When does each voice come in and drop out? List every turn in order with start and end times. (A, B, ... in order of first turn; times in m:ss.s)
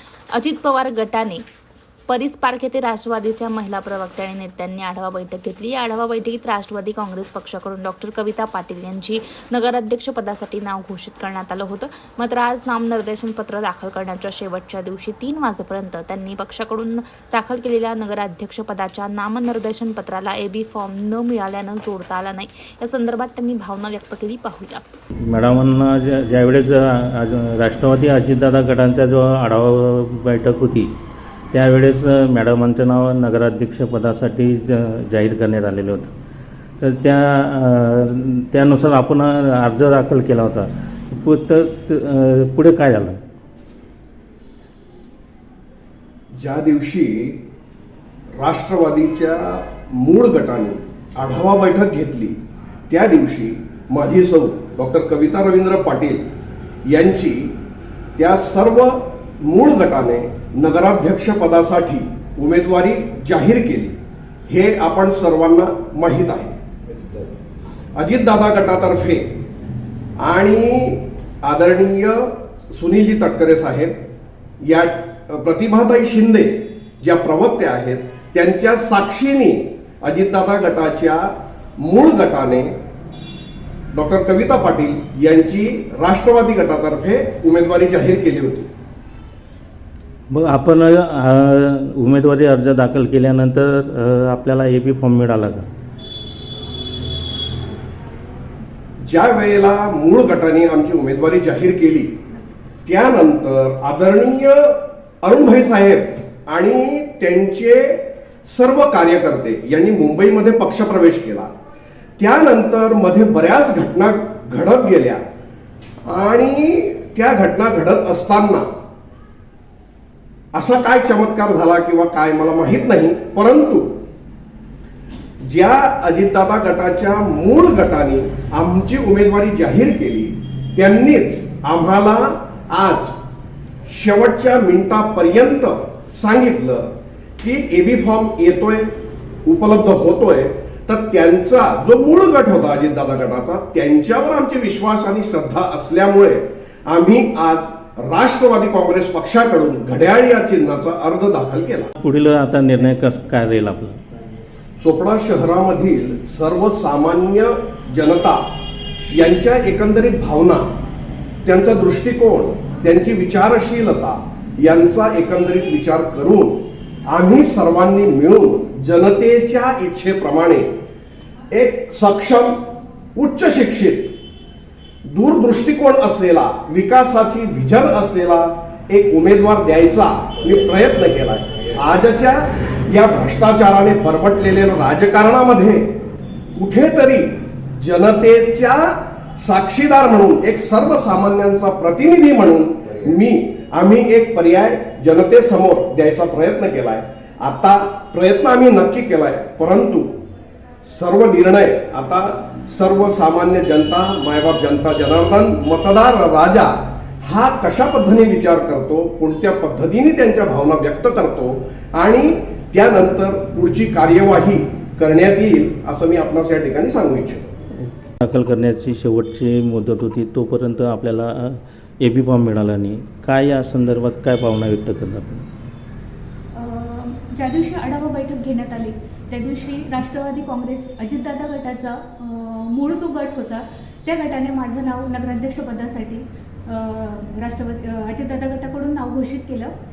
0:00.3-0:01.4 A
0:02.1-0:24.8 A
0:25.2-0:30.9 B
0:31.5-0:36.1 B
0:36.8-0:43.2 B
0:46.4-0:47.4 C
0:48.4-0:52.4 C
0:52.9-0:56.2 C
0:56.9-0:57.5 C
0:58.2-1:04.0 C
1:04.5-1:06.6 C
1:07.9-1:09.3 C
1:10.2-1:14.0 C
1:14.6-1:22.7 C
1:23.9-1:28.7 C
1:30.3-1:35.7 B
1:39.1-1:42.1 C
1:42.8-1:51.5 C
1:52.2-1:55.2 C
1:56.0-1:58.7 C
2:00.5-2:03.9 C
2:05.4-2:13.2 C
2:13.8-2:18.9 C
2:19.4-2:31.9 C
2:32.0-2:34.0 B
2:34.8-2:38.4 C
2:39.1-2:40.6 C
2:41.4-2:50.7 C
2:51.5-2:52.6 C
2:53.1-2:54.1 C
2:55.0-3:05.9 C
3:06.5-3:20.1 C
3:20.8-3:37.5 C
3:37.8-3:45.4 B
3:46.5-3:59.7 D